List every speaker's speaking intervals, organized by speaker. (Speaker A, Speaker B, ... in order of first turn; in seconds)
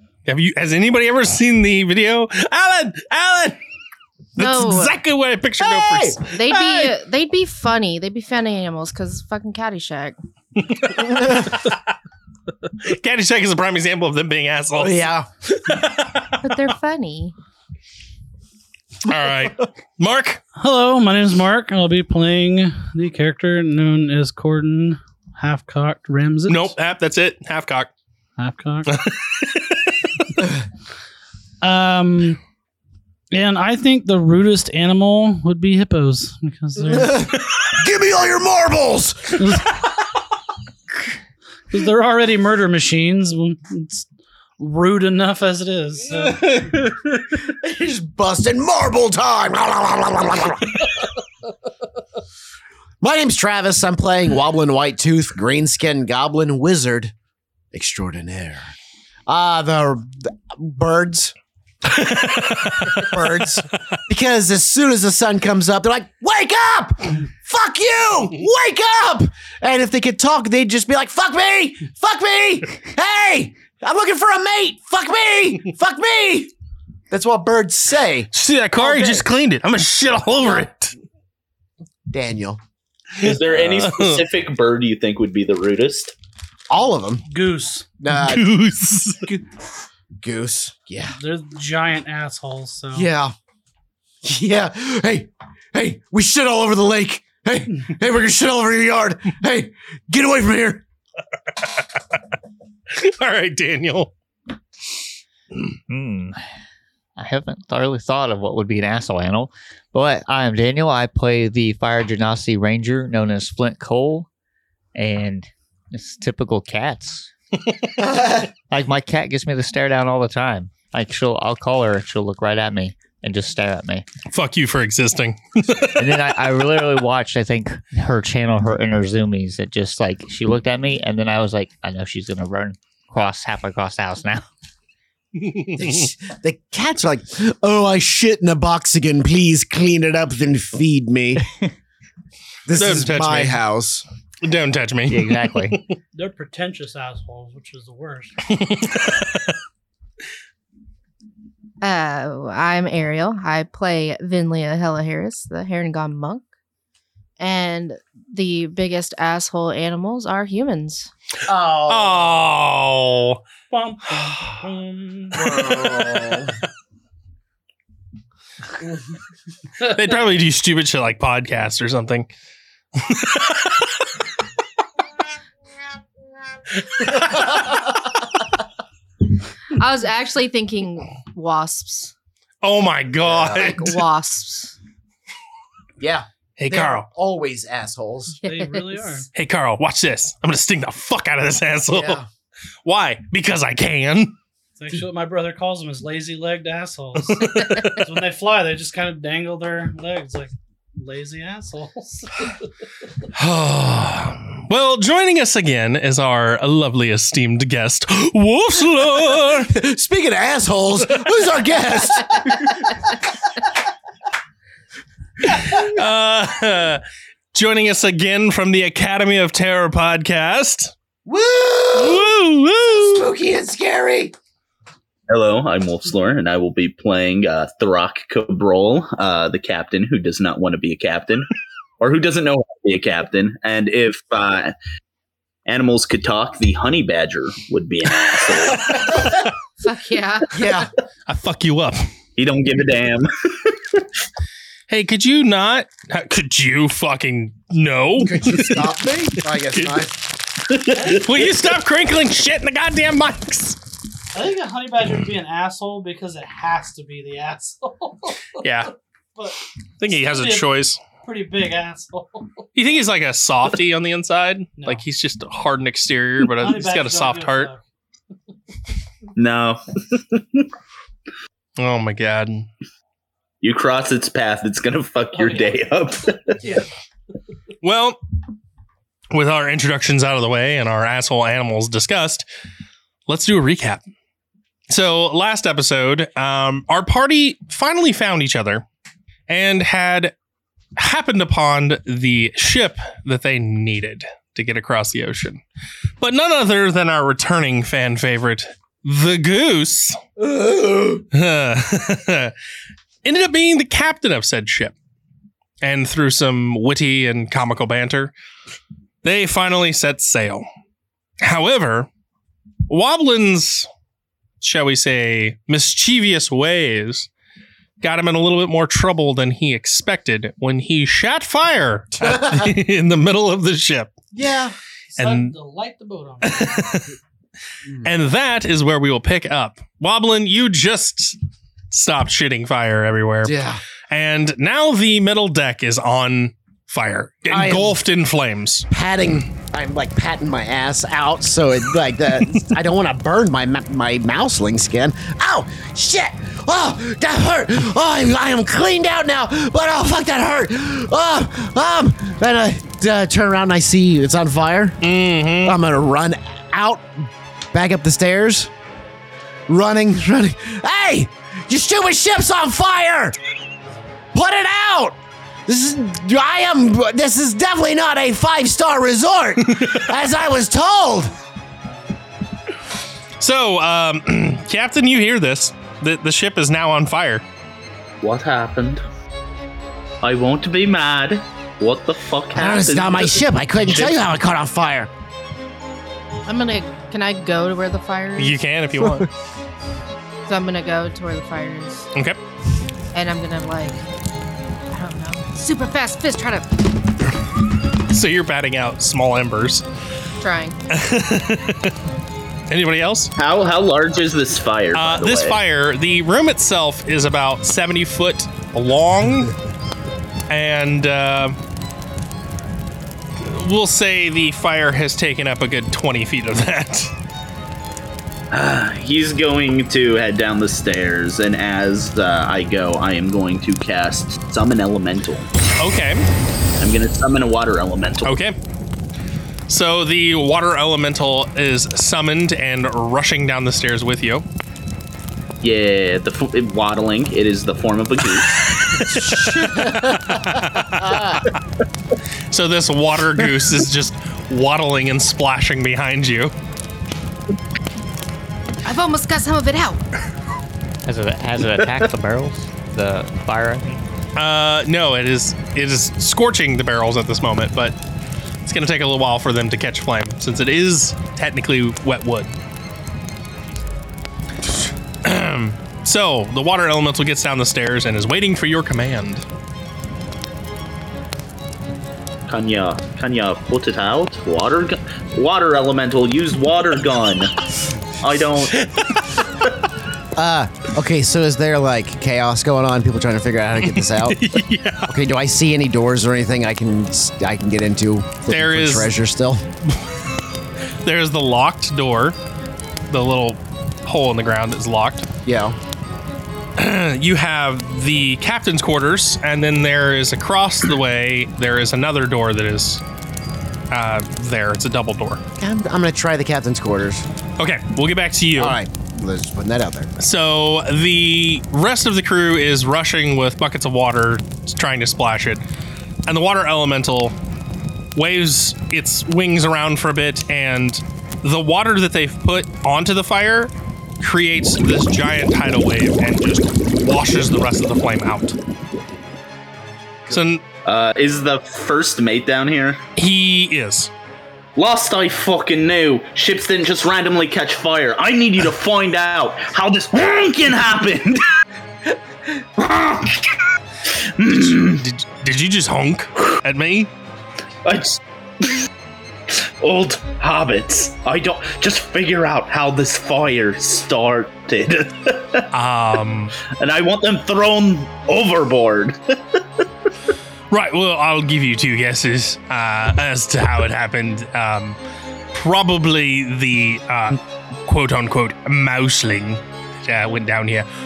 Speaker A: 0.3-3.6, 4.4-6.9, 10.8-11.8, 12.8-16.5, 19.1-20.4, 26.5-27.9, 28.9-30.1, 61.9-63.1, 78.3-80.9, 83.2-84.2, 88.2-89.3, 102.9-104.1, 124.3-126.1, 135.3-136.1, 142.7-143.6, 144.4-145.9, 148.5-149.5, 161.8-163.4, 164.2-164.6, 165.5-166.5, 169.8-172.3, 172.9-173.9, 176.8-177.5, 182.6-183.9, 186.6-187.1, 189.3-192.2, 192.8-194.3, 197.3-198.0, 203.3-209.7, 215.4-217.0, 217.5-220.9, 221.9-223.3, 241.3-242.1, 244.9-248.9, 249.5-250.1, 251.1-253.8, 258.6-258.9, 260.0-261.0, 262.8-267.7, 271.8-272.7, 277.8-278.2, 279.3-282.4, 283.3-284.0, 284.9-288.9, 289.5-290.3, 291.0-295.6, 296.2-300.2, 301.3-302.5, 303.2-304.9, 305.8-308.3, 309.2-310.6, 311.4-312.1, 312.9-313.9, 314.6-317.3, 318.0-324.1, 325.2-325.5, 326.4-327.1, 328.0-331.4, 331.9-338.9, 355.0-355.8, 373.4-377.4, 388.4-389.3, 398.0-399.9, 400.9-401.9, 402.7-403.3, 404.9-409.6, 410.5-411.6, 413.4-417.1, 425.8-426.3, 428.2-428.6, 429.7-434.4, 438.9-441.5, 442.5-446.5, 454.4-458.0, 458.6-462.6, 465.2-469.4, 478.8-479.2, 483.9-485.1, 488.5-489.1, 491.0-492.4, 493.1-495.3, 496.8-503.0, 503.9-505.4, 507.6-508.8, 510.2-515.6, 516.3-517.4, 518.1-528.6, 530.3-530.6, 533.2-534.1, 544.5-547.1, 555.7-556.5, 560.7-565.0, 565.5-570.9
Speaker B: 4.4-5.0, 6.2-10.2, 16.4-17.3, 151.8-156.4, 157.4-161.1, 179.7-182.1, 183.5-184.8, 188.4-189.1, 239.8-240.8, 386.5-388.6, 390.5-392.1, 393.1-394.0, 394.9-396.8, 400.4-400.8, 448.8-450.0
Speaker C: 5.6-6.2, 14.8-15.3, 36.9-39.6, 47.4-50.9, 53.0-57.1, 57.7-58.7, 59.3-61.3, 62.9-76.5, 77.1-79.3, 80.4-80.7, 82.1-82.6, 86.7-87.2, 88.0-88.6, 90.2-91.2, 92.9-93.3, 94.2-100.8, 135.8-141.5, 142.7-144.1, 161.5-162.3, 165.4-166.6, 177.3-177.7, 183.2-183.8, 186.0-188.4, 191.9-192.3, 209.5-213.1, 221.3-222.3, 222.9-224.3, 240.5-240.9, 248.2-250.2, 300.4-301.2, 322.2-322.7, 324.3-324.8, 327.9-328.1, 333.4-333.8, 337.5-338.0, 338.9-355.0, 355.6-358.7, 359.7-363.4, 364.3-371.3, 382.5-385.1, 389.0-389.2, 439.0-441.4, 480.4-484.4, 485.1-489.6, 495.4-495.8, 505.6-507.3, 508.6-510.1
Speaker D: 20.6-26.7, 28.4-28.9, 31.6-32.4, 33.3-37.3, 39.4-39.6, 41.7-44.1, 44.6-46.7, 87.3-87.9, 91.2-93.1, 146.1-148.3, 163.7-165.5, 188.4-189.3, 194.8-202.7, 250.9-251.3, 254.3-258.6, 260.1-262.6, 266.6-267.8, 275.4-275.8, 325.2-326.9
Speaker E: 83.2-86.1, 225.3-231.5, 232.0-234.7, 235.7-239.2, 242.4-244.1, 250.7-251.2, 269.4-270.7, 273.6-276.6, 378.2-379.0, 380.2-384.1, 403.4-405.6, 418.5-425.5, 426.8-428.3, 435.6-438.7, 472.5-477.5, 478.2-478.9, 530.9-533.0, 534.8-541.5, 542.6-543.6, 544.2-545.0, 547.9-548.9, 549.5-555.7, 556.7-559.6
Speaker F: 105.9-106.4, 107.2-114.3, 115.0-117.3, 118.7-124.1, 126.0-134.4, 145.1-145.9, 451.1-454.0